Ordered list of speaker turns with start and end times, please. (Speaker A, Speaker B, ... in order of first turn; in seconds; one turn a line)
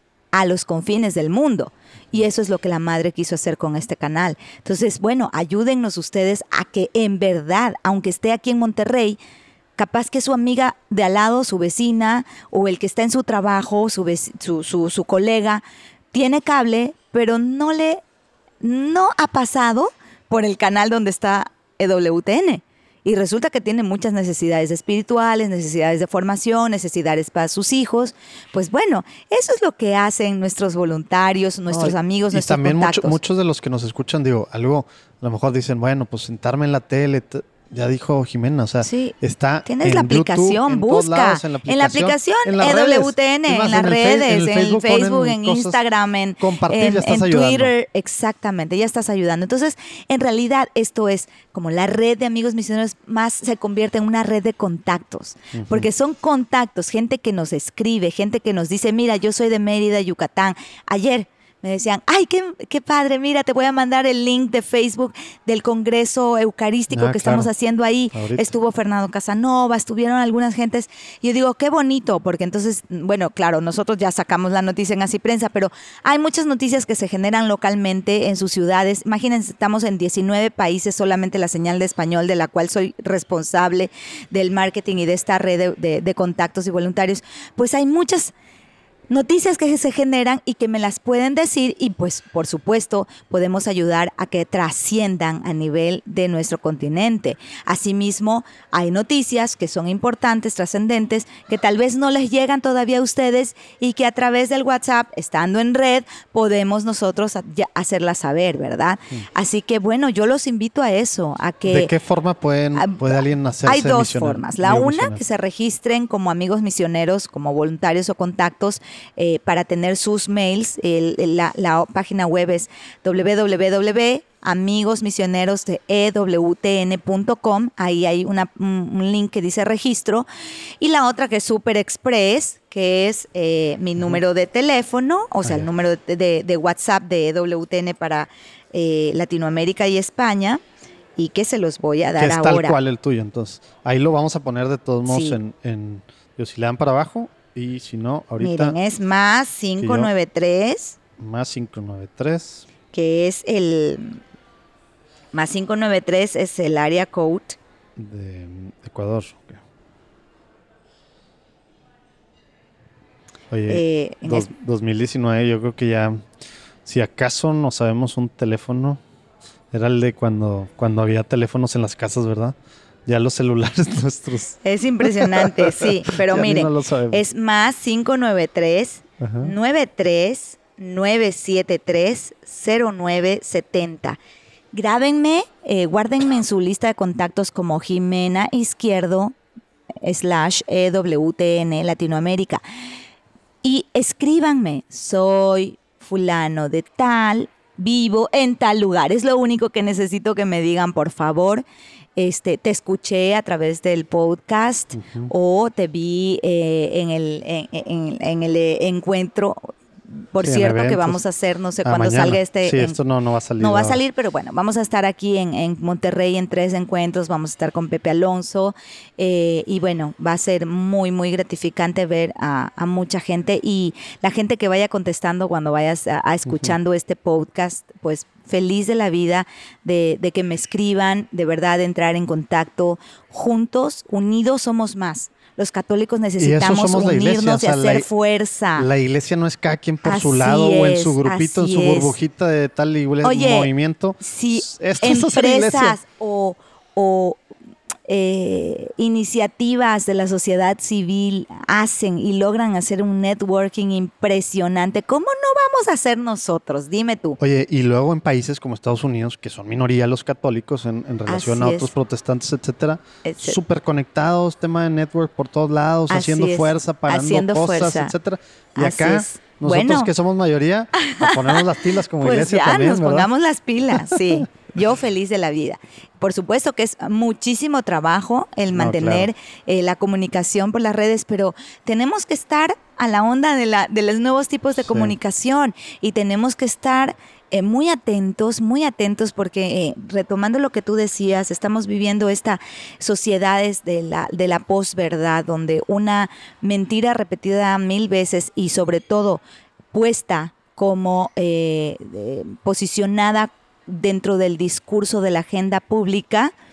Speaker A: 0.3-9.2
Speaker A: 9.8-18.0
Speaker A: 18.6-33.2
Speaker B: 31.7-45.8
Speaker A: 38.8-88.3
Speaker B: 46.4-47.7
Speaker B: 55.5-55.9
Speaker B: 66.9-67.5
Speaker B: 68.1-68.5
Speaker A: 89.1-111.9
Speaker B: 111.7-115.2
Speaker A: 112.7-130.3
Speaker A: 130.8-140.6
Speaker A: 141.2-142.8
Speaker B: 142.2-148.8
Speaker A: 145.1-145.4
Speaker A: 148.4-151.0
Speaker B: 149.8-150.1
Speaker B: 151.2-152.7
Speaker A: 152.9-154.2
Speaker A: 155.3-157.6
Speaker B: 158.0-159.6
Speaker B: 163.5-166.2
Speaker A: 163.7-164.5
Speaker B: 166.8-169.0
Speaker B: 169.7-177.2
Speaker A: 174.6-184.2
Speaker B: 179.2-179.5
Speaker A: 184.7-189.3
Speaker A: 190.0-192.6
Speaker A: 193.6-201.6
Speaker A: 202.2-209.7
Speaker B: 204.9-205.3
Speaker A: 210.3-213.0
Speaker B: 210.4-211.2
Speaker B: 211.8-214.0
Speaker A: 213.6-238.9
Speaker B: 236.4-238.1
Speaker B: 238.8-246.0
Speaker A: 240.0-242.2
Speaker A: 243.2-247.4
Speaker A: 248.1-257.4
Speaker B: 257.4-273.3
Speaker A: 261.3-261.9
Speaker A: 263.2-263.6
Speaker A: 266.1-268.1
Speaker A: 268.8-270.1
Speaker A: 270.9-271.6
Speaker A: 272.2-299.4
Speaker B: 273.9-274.4
Speaker B: 278.7-279.3
Speaker B: 284.8-285.1
Speaker A: 299.9-306.5